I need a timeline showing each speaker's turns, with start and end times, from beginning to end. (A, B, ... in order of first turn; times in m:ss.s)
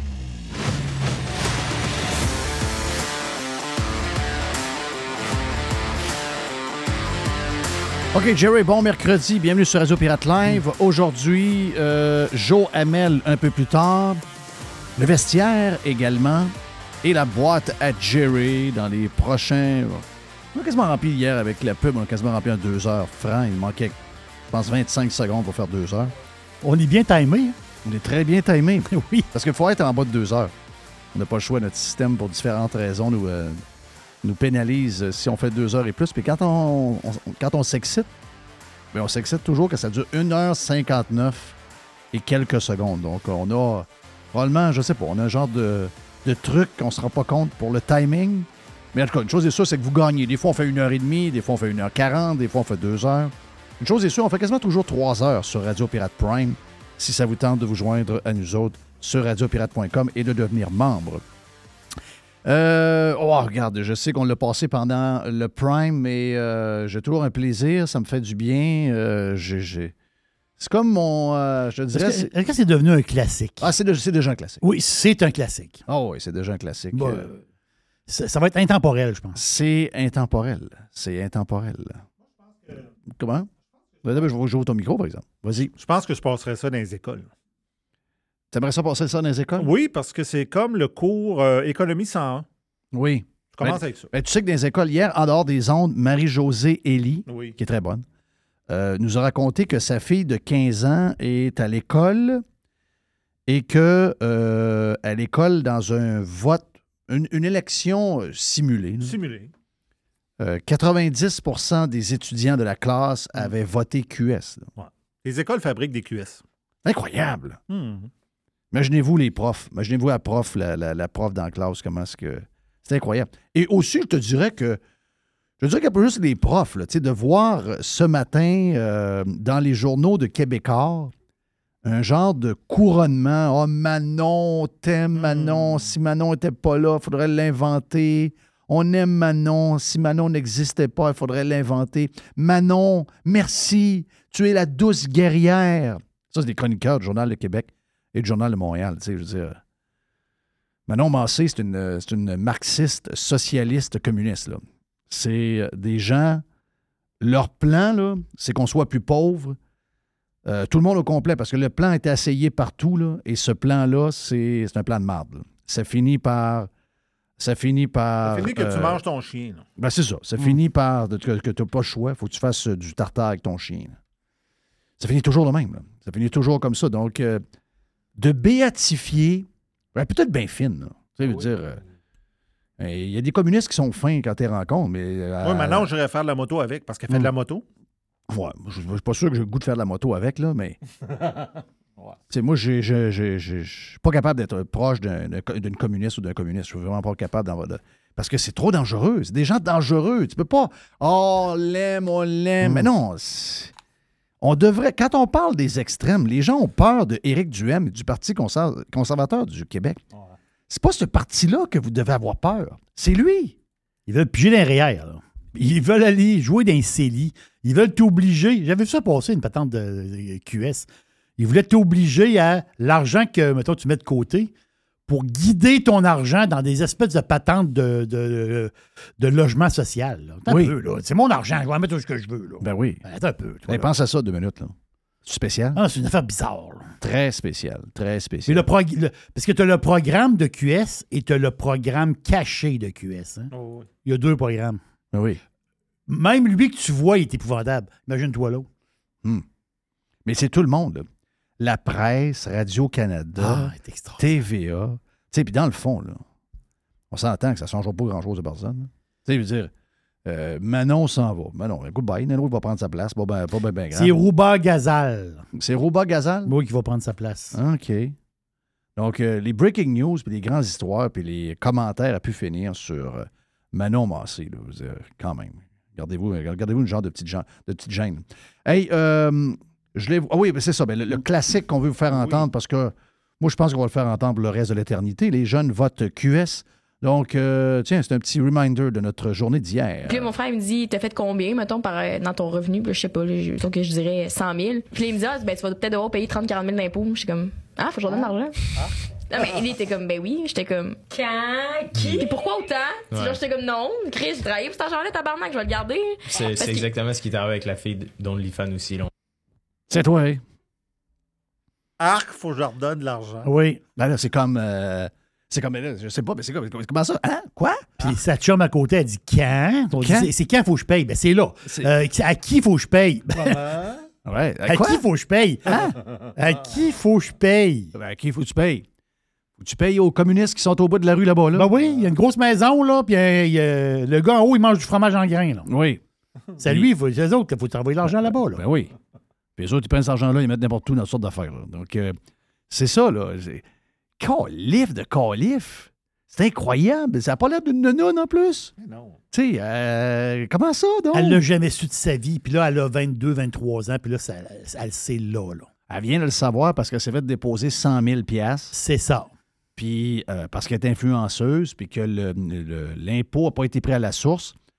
0:08.1-0:14.2 A
0:15.0-0:24.0 A
0:24.5-0:26.1 A
0:26.6-0:27.6 B
0:27.8-0:30.5 A
0:28.9-0:29.3 B
0:31.1-0:33.6 A
0:34.2-0:38.1 A
0:38.9-0:41.6 A
0:42.1-1:01.2 A
1:02.4-1:09.9 A
1:10.6-1:12.3 A
1:11.9-1:13.7 B
1:13.6-1:14.6 A
1:14.6-1:15.8 B
1:15.8-1:17.3 A
1:16.9-1:17.4 B
1:18.1-1:19.4 B
1:19.3-1:22.0 A
1:22.7-1:23.5 A
1:24.0-1:25.7 A
1:25.7-1:27.3 C
1:28.5-1:29.7 A
1:29.6-1:32.4 C
1:32.9-1:38.0 A
1:33.5-1:34.1 C
1:37.3-1:37.5 C
1:38.7-1:42.4 A
1:43.5-1:49.2 A
1:49.0-1:49.5 C
1:50.4-1:54.7 A
1:54.8-1:56.4 C
1:56.8-1:57.6 A
1:57.7-1:58.1 C
1:58.7-2:04.8 A
2:05.6-2:11.1 A
2:11.8-2:29.6 A
2:15.1-2:15.8 C
2:30.9-2:36.4 A
2:37.2-2:39.6 A
2:40.4-2:46.7 A
2:47.4-2:49.0 A
2:48.2-2:49.6 C
2:49.8-2:54.0 A
2:55.0-2:57.4 A
2:58.2-3:01.8 A
3:02.8-3:05.9 A
3:05.4-3:07.6 C
3:08.3-3:10.8 A
3:12.3-3:23.7 A
3:24.4-3:30.0 A
3:30.7-3:33.5 A
3:34.1-3:40.9 B
3:41.4-3:44.5 B
3:45.1-3:53.9 B
3:50.4-3:50.7 A
3:52.6-3:53.0 A
3:53.7-3:55.8 A
3:55.7-3:56.9 B
3:57.0-3:58.7 A
3:58.5-4:03.5 B
4:03.5-4:03.9 C
4:04.0-4:04.8 B
4:05.1-4:05.4 A
4:06.1-4:08.7 B
4:10.2-4:11.1 A
4:11.6-4:16.2 A
4:13.4-4:14.2 B
4:17.1-4:19.7 A
4:20.2-4:24.2 A
4:23.9-4:25.4 B
4:25.5-4:26.5 A
4:26.4-4:27.6 B
4:27.5-4:28.2 A
4:29.0-4:50.3 A
4:50.1-4:58.5 D
4:59.3-5:06.9 D
5:03.1-5:03.4 E
5:06.3-5:09.1 E
5:09.9-5:10.4 A
5:12.0-5:13.5 C
5:13.4-5:13.8 B
5:14.0-5:17.8 A
5:18.0-5:23.8 B
5:20.0-5:20.3 A
5:21.6-5:21.9 A
5:23.4-5:24.0 C
5:24.2-5:25.0 A
5:24.7-5:25.8 B
5:25.6-5:25.9 A
5:26.4-5:27.9 B
5:27.9-5:28.8 A
5:29.6-5:31.7 A
5:31.5-5:35.7 B
5:35.6-5:36.0 A
5:36.6-5:38.6 B
5:36.6-5:36.9 A
5:38.0-5:38.9 A
5:39.6-5:42.2 A
5:42.7-5:43.6 A
5:44.2-5:48.7 A
5:48.8-5:49.2 C
5:49.3-5:51.4 A
5:51.1-5:55.7 B
5:55.9-5:58.7 A
5:58.7-5:59.3 B
5:59.8-6:04.5 A